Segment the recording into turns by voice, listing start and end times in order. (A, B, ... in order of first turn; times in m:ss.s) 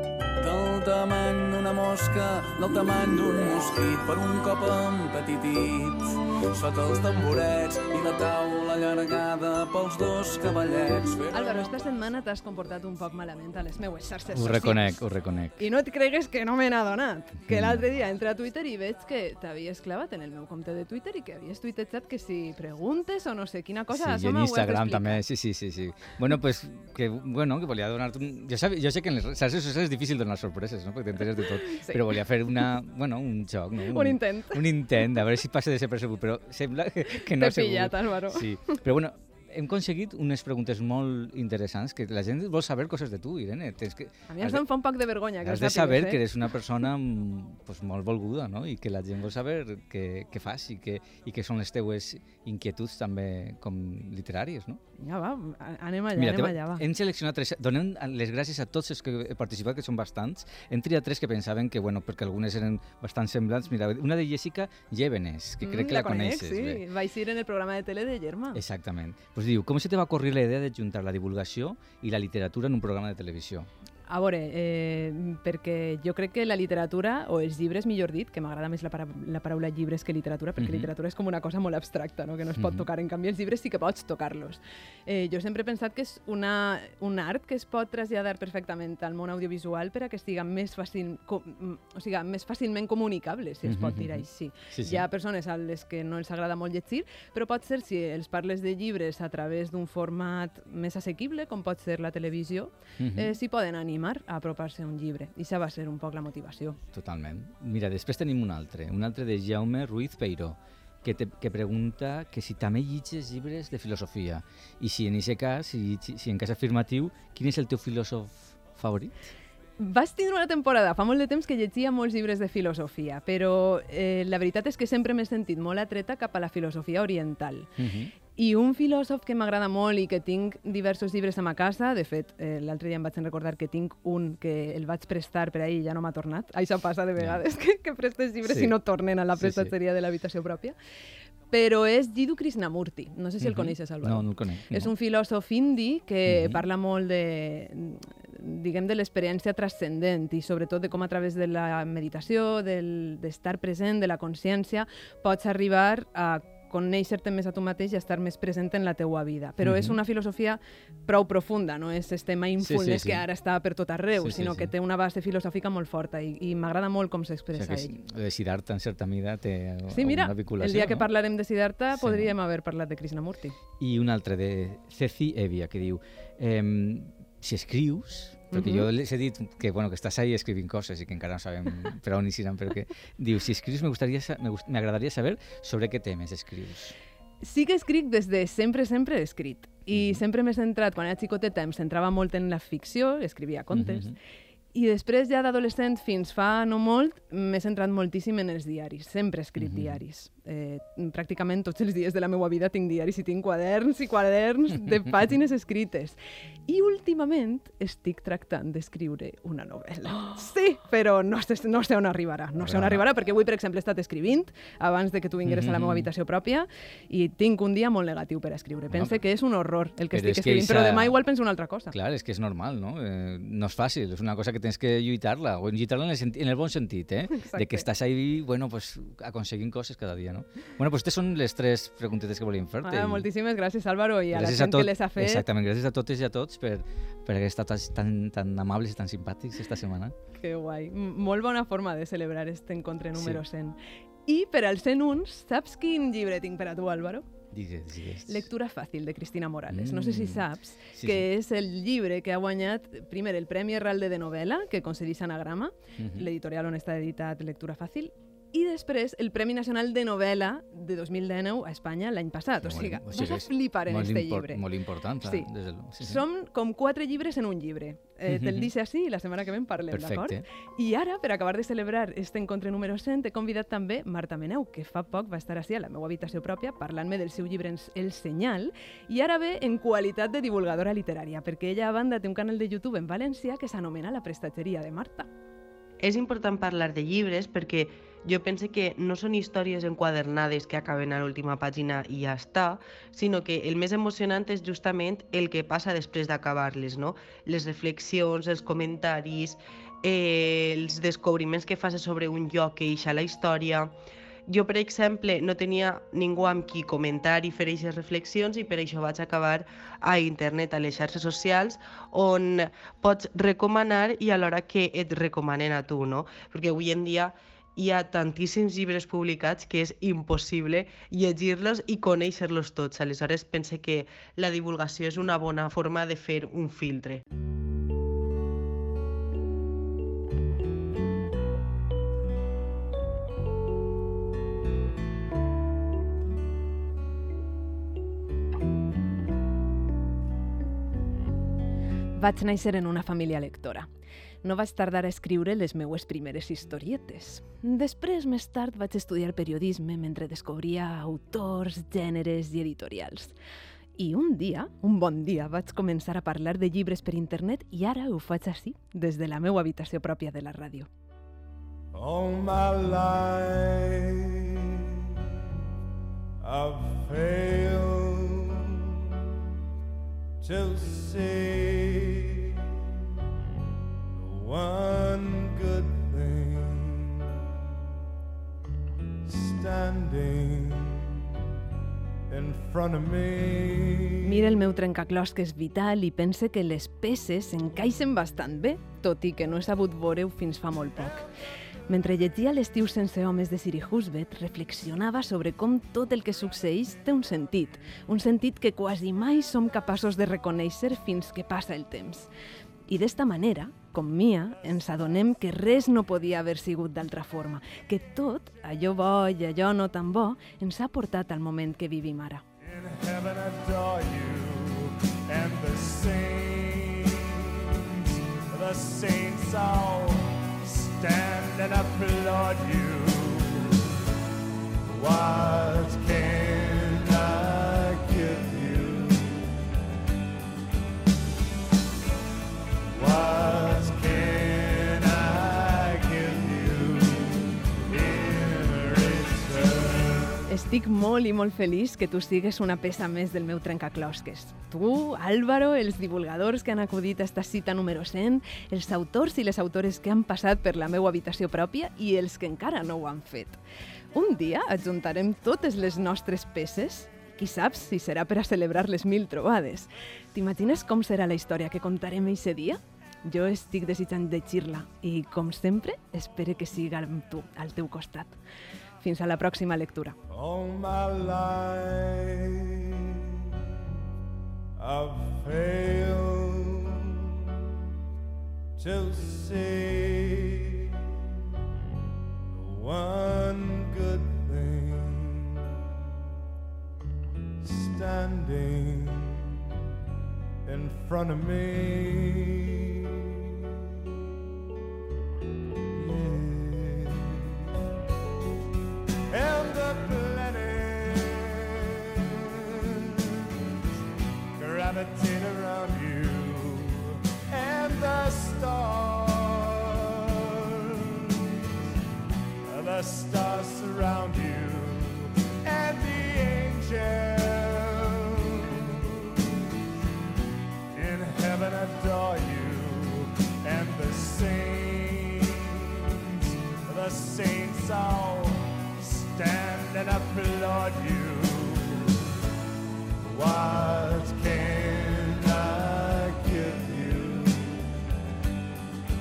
0:00.4-0:11.7 A
0:11.3-0:15.0 B
0:14.3-0:15.6 C
0:15.6-0:25.2 B
0:17.5-0:17.8 C
0:23.9-0:44.6 C
0:31.6-0:32.0 B
0:33.8-0:34.6 B
0:37.4-0:38.8 B
0:44.3-0:46.2 B
0:45.4-0:54.8 C
0:55.0-0:56.8 B
0:56.1-1:06.8 C
1:05.6-1:08.6 B
1:08.5-1:13.7 C
1:14.1-1:46.8 B
1:20.6-1:20.9 C
1:22.6-1:22.8 C
1:33.6-1:35.0 C
1:43.0-1:43.3 C
1:46.9-1:59.2 C
1:59.8-2:07.7 B
2:07.8-2:08.1 C
2:08.3-2:20.8 B
2:18.4-2:18.7 C
2:19.4-2:19.7 C
2:21.5-2:48.0 B
2:23.4-2:24.9 C
2:26.2-2:26.6 C
2:39.6-2:40.0 C
2:42.6-2:43.2 C
2:44.2-2:44.7 C
2:47.5-2:51.1 C
2:49.9-2:53.6 B
2:51.9-2:52.3 C
2:53.8-3:07.0 C
2:58.5-2:58.9 B
3:07.4-3:14.1 B
3:09.9-3:10.2 C
3:13.7-3:14.1 C
3:14.7-3:41.9 B
3:19.6-3:20.0 C
3:32.6-3:33.0 C
3:35.4-3:36.1 C
3:38.9-3:39.2 C
3:40.1-3:41.2 C
3:41.9-3:53.3 C
3:47.3-3:47.9 B
3:52.8-3:55.4 B
3:54.3-4:00.1 C
4:00.3-4:07.2 B
4:03.2-4:03.4 C
4:07.5-4:08.5 C
4:08.3-4:24.6 B
4:09.7-4:11.3 C
4:16.0-4:16.3 C
4:22.6-4:26.2 C
4:25.2-4:45.3 B
4:28.3-4:28.7 C
4:29.9-4:30.4 C
4:46.0-5:04.0 D
5:04.5-5:27.2 D
5:42.2-5:43.9 B
5:44.4-5:53.3 B
5:54.0-6:00.9 B
6:01.9-6:04.6 E
6:06.4-6:08.8 E
6:10.4-6:12.5 E
6:14.1-6:17.2 E
6:19.2-6:21.2 E
6:22.3-6:24.3 E
6:24.2-6:31.2 B
6:31.9-6:42.3 B
6:42.9-6:52.4 B
6:52.6-6:57.4 E
6:58.5-7:03.8 E
7:04.9-7:09.5 E
7:12.9-7:20.4 E
7:20.5-7:33.6 B
7:34.1-7:48.4 B
7:49.0-7:50.2 B
7:50.3-7:53.1 E
7:54.8-7:57.2 E
7:58.8-8:00.9 E
8:02.5-8:05.6 E
8:07.6-8:09.6 E
8:10.6-8:13.0 E
8:15.9-8:17.7 E
8:19.3-8:23.5 E
8:24.5-8:31.6 E
8:32.6-8:39.0 E
8:40.9-8:46.3 E
8:46.8-8:52.2 E
8:53.2-8:57.8 E